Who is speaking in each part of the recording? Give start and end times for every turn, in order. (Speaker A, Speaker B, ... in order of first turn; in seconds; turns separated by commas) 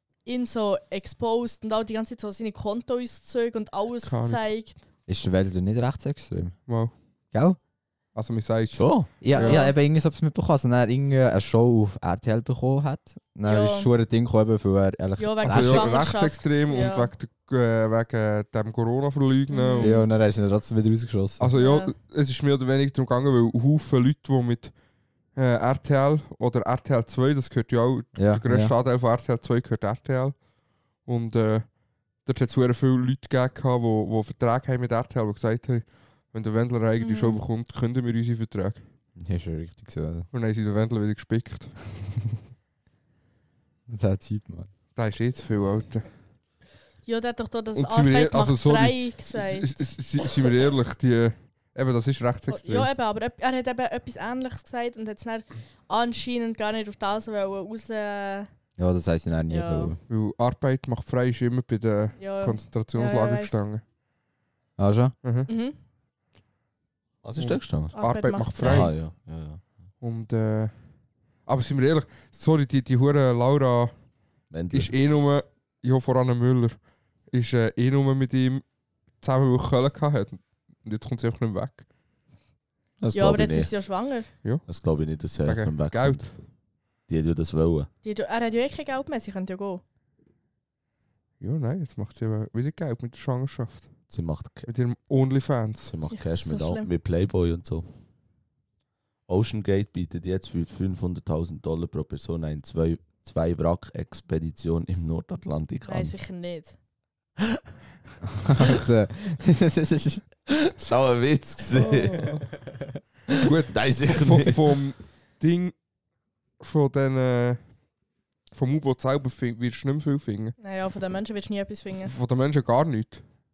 Speaker A: 0.2-4.8, Speaker B: 4.0-4.4, Speaker C: 5.1-6.6, Speaker C: 7.3-7.6, Speaker B: 8.1-9.7, Speaker D: 8.7-9.1, Speaker C: 9.2-16.0, Speaker A: 9.3-9.7, Speaker A: 13.4-13.9, Speaker A: 15.2-17.1, Speaker B: 15.4-20.1, Speaker A: 19.5-20.1, Speaker C: 19.8-21.5, Speaker B: 21.4-24.7, Speaker A: 21.6-21.9, Speaker B: 25.3-30.4, Speaker C: 28.1-28.7, Speaker B: 31.0-38.8, Speaker A: 37.0-37.4, Speaker C: 39.2-40.3, Speaker B: 40.3-41.9, Speaker C: 43.9-44.7, Speaker B: 45.0-46.0, Speaker A: 47.0-49.9, Speaker B: 47.7-52.9, Speaker A: 52.5-58.5, Speaker C: 58.8-60.0, Speaker A: 59.5-60.0, Speaker B: 60.1-63.8, Speaker A: 62.2-63.6, Speaker C: 64.8-65.1, Speaker B: 65.2-65.5, Speaker A: 65.5-65.8, Speaker D: 67.2-68.0, Speaker B: 67.4-68.9, Speaker A: 67.9-68.9, Speaker D: 68.6-69.6, Speaker B: 70.0-70.7, Speaker B: 71.5-74.0, Speaker D: 74.5-74.9, Speaker B: 74.7-78.6, Speaker B: 79.2-81.8, Speaker D: 83.0-83.7, Speaker A: 83.1-84.3, Speaker D: 84.7-86.3, Speaker B: 85.4-86.3, Speaker D: 87.1-87.9, Speaker A: 88.0-89.8, Speaker B: 91.4-94.0, Speaker D: 94.1-94.7, Speaker B: 94.7-95.9, Speaker D: 95.8-97.9, Speaker A: 96.1-96.9, Speaker D: 99.3-106.2, Speaker A: 105.8-106.8, Speaker C: 108.4-110.2, Speaker D: 110.5-112.4, Speaker B: 113.3-115.8, Speaker D: 113.7-114.6, Speaker B: 116.6-117.8, Speaker B: 118.5-120.6, Speaker A: 120.6-122.1, Speaker B: 122.0-123.2